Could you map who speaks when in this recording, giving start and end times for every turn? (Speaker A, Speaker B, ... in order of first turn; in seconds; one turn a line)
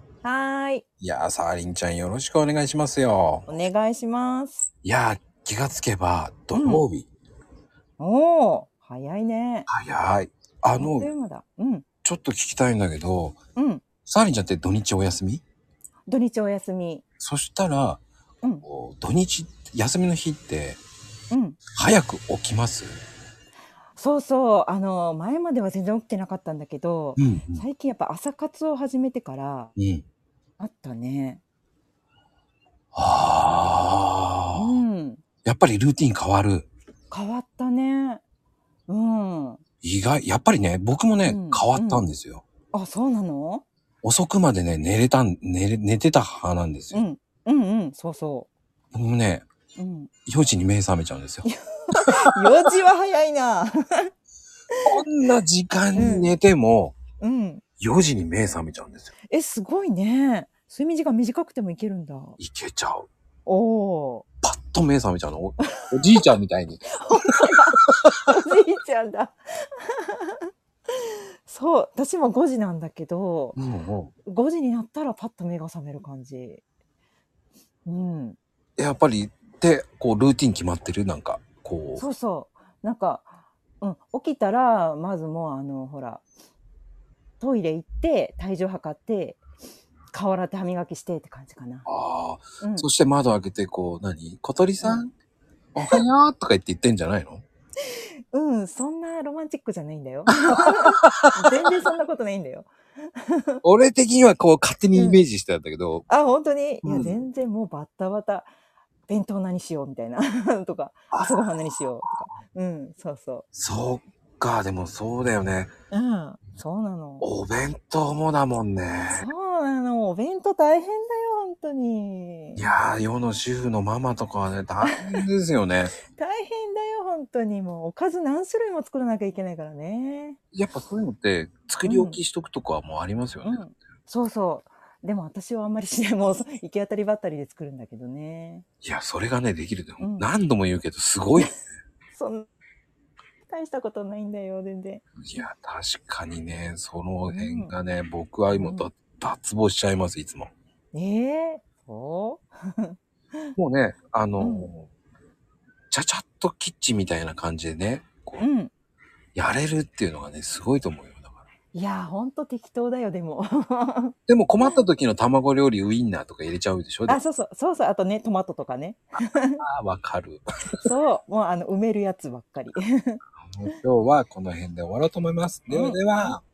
Speaker A: 0.2-0.8
Speaker B: 1.0-3.5
Speaker A: 3.5-4.7
Speaker B: 4.8-7.1
Speaker A: 6.5-6.8
Speaker A: 8.0-9.7
Speaker B: 9.7-11.1
Speaker A: 10.8-11.8
Speaker B: 12.0-13.4
Speaker A: 13.6-13.8
Speaker B: 14.1-15.4
Speaker A: 16.1-17.0
Speaker B: 17.2-18.0
Speaker B: 18.6-20.8
Speaker A: 21.3-21.6
Speaker B: 21.7-23.0
Speaker A: 24.0-29.7
Speaker B: 27.2-27.6
Speaker B: 29.8-30.0
Speaker A: 30.6-31.4
Speaker B: 32.9-34.8
Speaker A: 34.5-35.2
Speaker B: 35.4-36.7
Speaker A: 37.1-38.2
Speaker A: 38.9-39.6
Speaker B: 39.8-42.4
Speaker A: 41.2-42.1
Speaker A: 42.7-43.6
Speaker B: 44.0-47.0
Speaker A: 46.9-48.5
Speaker B: 48.9-49.5
Speaker A: 49.8-50.1
Speaker B: 50.3-52.5
Speaker A: 51.5-54.1
Speaker A: 54.7-55.0
Speaker B: 54.9-57.0
Speaker A: 56.0-56.3
Speaker A: 57.2-57.6
Speaker B: 57.8-59.1
Speaker A: 59.3-62.4
Speaker B: 62.4-63.1
Speaker A: 63.5-64.2
Speaker B: 64.4-67.5
Speaker A: 65.6-66.2
Speaker A: 66.9-73.6
Speaker B: 73.6-74.1
Speaker A: 74.3-76.6
Speaker A: 77.9-78.4
Speaker B: 78.8-82.0
Speaker A: 82.0-86.2
Speaker A: 87.4-89.4
Speaker A: 90.1-91.9
Speaker B: 91.9-95.1
Speaker A: 92.6-92.9
Speaker B: 95.8-97.4
Speaker A: 98.3-103.6
Speaker B: 100.3-101.7
Speaker B: 103.6-106.1
Speaker A: 105.0-105.2
Speaker A: 106.1-108.5
Speaker B: 106.8-107.2
Speaker A: 109.1-113.5
Speaker B: 111.1-111.5
Speaker B: 113.5-115.7
Speaker A: 115.9-117.3
Speaker B: 117.2-119.3
Speaker A: 119.1-122.7
Speaker B: 122.6-126.0
Speaker A: 124.8-125.2
Speaker A: 126.1-130.4
Speaker B: 130.5-133.6
Speaker A: 131.8-132.2
Speaker A: 133.4-138.7
Speaker B: 138.8-141.6
Speaker A: 140.0-140.3
Speaker A: 142.1-142.5
Speaker A: 143.5-145.0
Speaker B: 145.2-150.5
Speaker A: 147.3-147.7
Speaker A: 148.5-148.9
Speaker A: 150.9-153.5
Speaker B: 153.6-154.9
Speaker A: 154.4-154.7
Speaker B: 155.9-158.4
Speaker A: 158.4-158.7
Speaker B: 159.3-161.4
Speaker A: 161.7-164.8
Speaker B: 164.3-167.2
Speaker A: 167.1-169.6
Speaker B: 169.6-170.4
Speaker A: 170.8-173.2
Speaker B: 173.4-176.4
Speaker A: 175.7-176.0